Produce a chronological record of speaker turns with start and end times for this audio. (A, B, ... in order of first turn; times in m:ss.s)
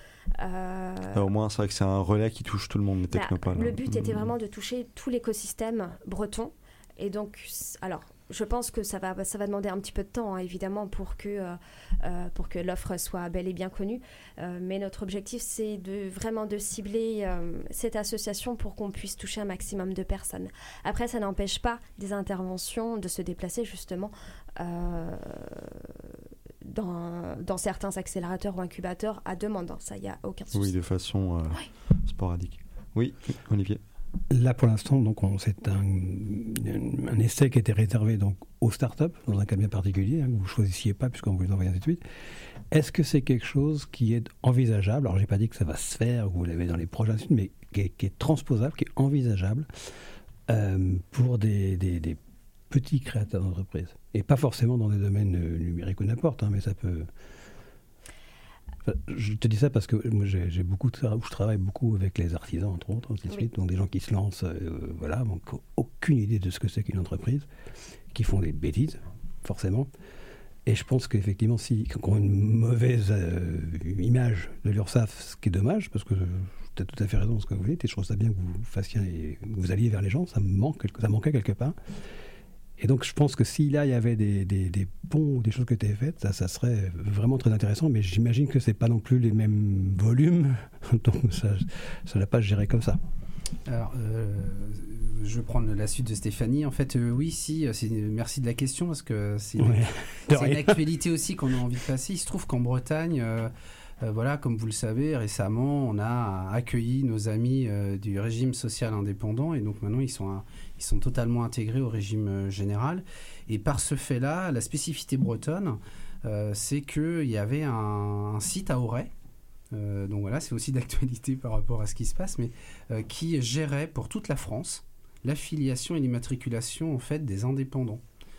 0:00.4-0:01.2 A
0:01.1-0:04.3 B
0:03.1-0:26.0 A
0:26.6-0:30.7 A
0:30.5-0:33.8 B
0:34.3-0:42.0 C
0:42.7-0:49.7 C
0:50.5-0:52.2 C
0:52.7-0:57.1 C
0:58.9-1:07.5 C
1:08.1-1:09.9 C
1:10.7-1:21.8 C
1:22.8-1:33.0 C
1:33.7-1:59.1 D
1:39.6-1:40.8 C
1:59.7-2:08.0 D